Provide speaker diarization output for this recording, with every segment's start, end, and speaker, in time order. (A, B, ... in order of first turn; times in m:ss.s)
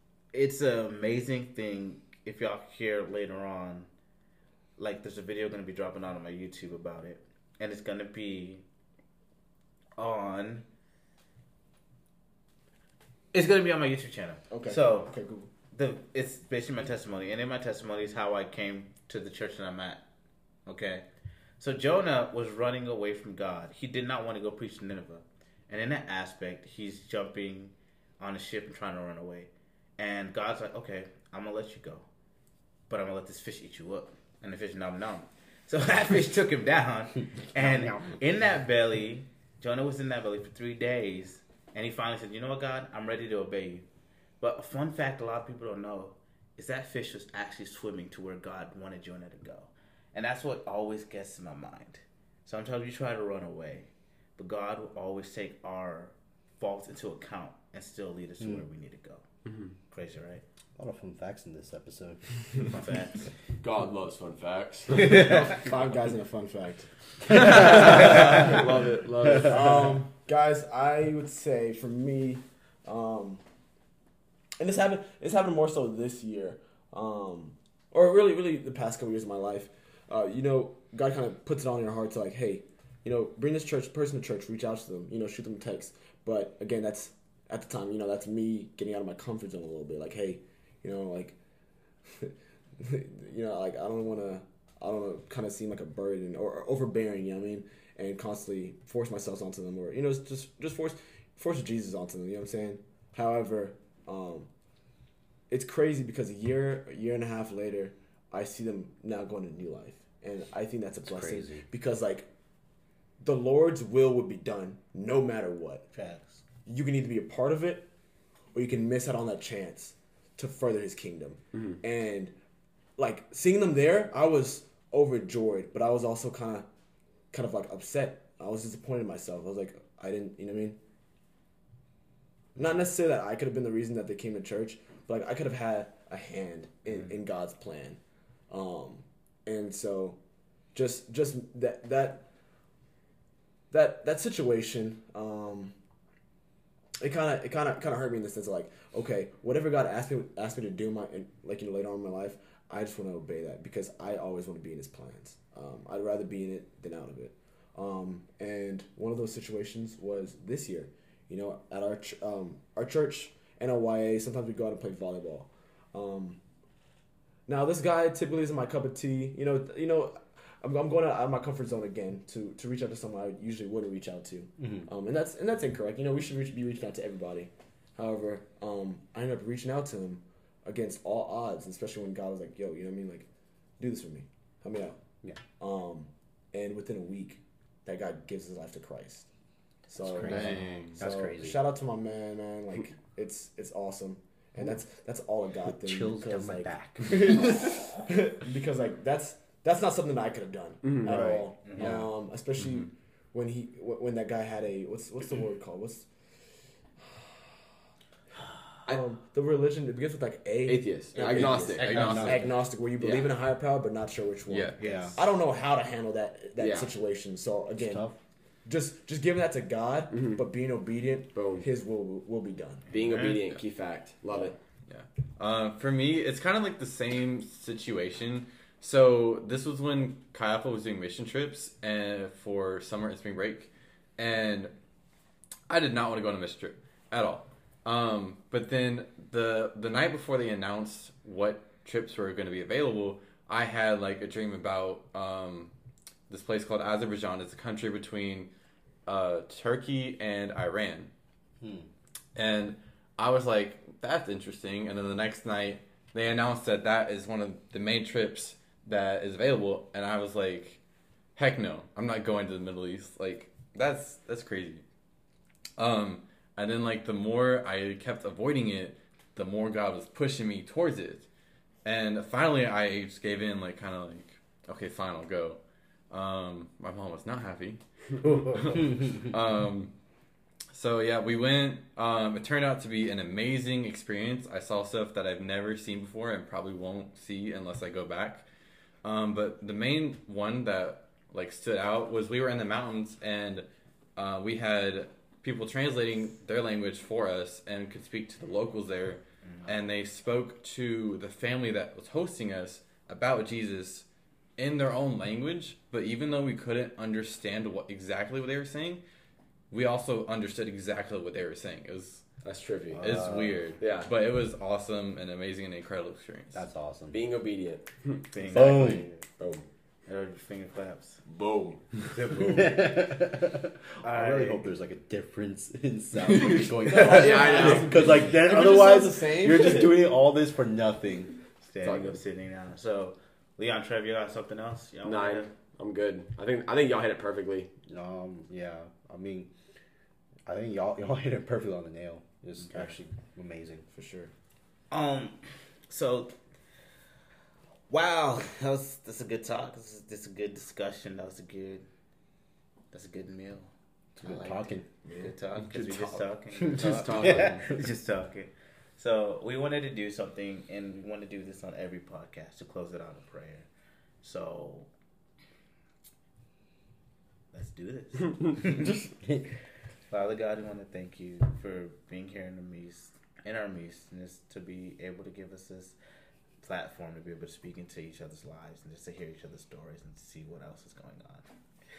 0:00.3-0:03.9 A
0:04.8-0:08.6 A
0:10.0-0:10.6 A
0:13.3-0:15.1 A
0:14.5-0:15.5 B
0:15.7-0:20.0 A
0:20.7-0:21.0 A
0:21.6-0:32.0 A
0:32.9-0:43.8 A
0:37.6-0:38.2 C
0:44.4-0:59.2 A
0:59.4-0:59.7 D
0:59.9-1:00.4 A
1:00.8-1:02.5 C
1:02.6-1:03.2 A
1:03.6-1:05.3 D
1:05.0-1:05.5 A
1:05.1-1:08.6 B
1:07.3-1:09.8 D
1:08.0-1:08.4 A
1:09.4-1:13.4 B
1:14.6-1:31.4 B
1:32.1-1:44.5 B
1:45.5-1:52.2 B
1:51.0-1:51.6 C
1:53.2-1:55.8 B
1:55.9-1:56.4 A
1:56.6-1:57.8 B
1:58.5-2:02.3 B
2:03.0-2:06.7 B
2:07.3-2:10.8 B
2:12.6-2:18.0 B
2:18.5-2:20.2 B
2:20.7-2:22.2 B
2:23.7-2:25.7 B
2:27.0-2:46.4 B
2:47.5-3:03.3 B
3:03.8-3:05.0 B
3:05.6-3:09.3 B
3:09.9-3:26.0 B
3:10.0-3:11.6 C
3:10.2-3:11.0 E
3:15.8-3:17.9 C
3:20.8-3:21.2 D
3:21.0-3:22.1 C
3:21.6-3:22.0 A
3:22.6-3:22.9 E
3:28.9-3:38.0 B
3:30.6-3:32.2 D
3:31.1-3:32.4 A
3:31.4-3:32.5 C
3:31.8-3:32.5 E
3:33.0-3:33.3 D
3:34.5-3:34.8 E
3:34.8-3:35.2 A
3:34.8-3:35.2 C
3:36.6-3:36.9 D
3:37.8-3:38.2 C
3:38.6-3:42.8 B
3:40.1-3:40.4 D
3:41.3-3:41.6 D
3:42.9-3:43.4 A
3:42.9-3:44.6 D
3:44.9-3:54.7 E
3:55.7-4:05.7 E
4:06.3-4:08.5 E
4:09.0-4:11.1 E
4:11.6-4:11.9 C
4:12.3-4:20.8 E
4:21.4-4:24.8 E
4:25.8-4:31.3 E
4:31.8-4:35.6 E
4:36.1-4:39.9 E
4:40.7-4:48.4 E
4:49.0-4:53.6 E
4:54.2-5:04.0 E
5:04.6-5:09.0 E
5:09.7-5:12.2 E
5:12.4-5:13.2 D
5:12.9-5:13.7 C
5:13.0-5:16.6 E
5:13.8-5:14.1 D
5:16.5-5:17.2 C
5:17.1-5:18.2 D
5:18.3-5:19.2 A
5:18.5-5:19.1 C
5:19.4-5:19.6 D
5:20.1-5:21.2 A
5:21.3-5:22.5 D
5:22.1-5:23.0 A
5:22.4-5:32.1 C
5:24.0-5:24.7 A
5:26.9-5:28.0 D
5:26.9-5:30.1 B
5:31.8-5:35.5 A
5:31.8-5:32.2 D
5:35.0-5:37.7 D
5:37.9-5:39.5 C
5:40.4-5:43.9 C
5:43.9-5:44.3 B
5:44.9-5:45.4 A
5:45.9-5:46.3 A
5:47.9-5:51.8 A
5:52.9-6:03.7 A
5:54.2-5:54.8 C
5:55.0-5:55.3 B
5:55.5-5:57.7 D
5:57.1-5:57.4 E
6:04.2-6:04.9 A
6:07.5-6:09.0 A
6:10.1-6:16.0 A
6:16.6-6:21.4 A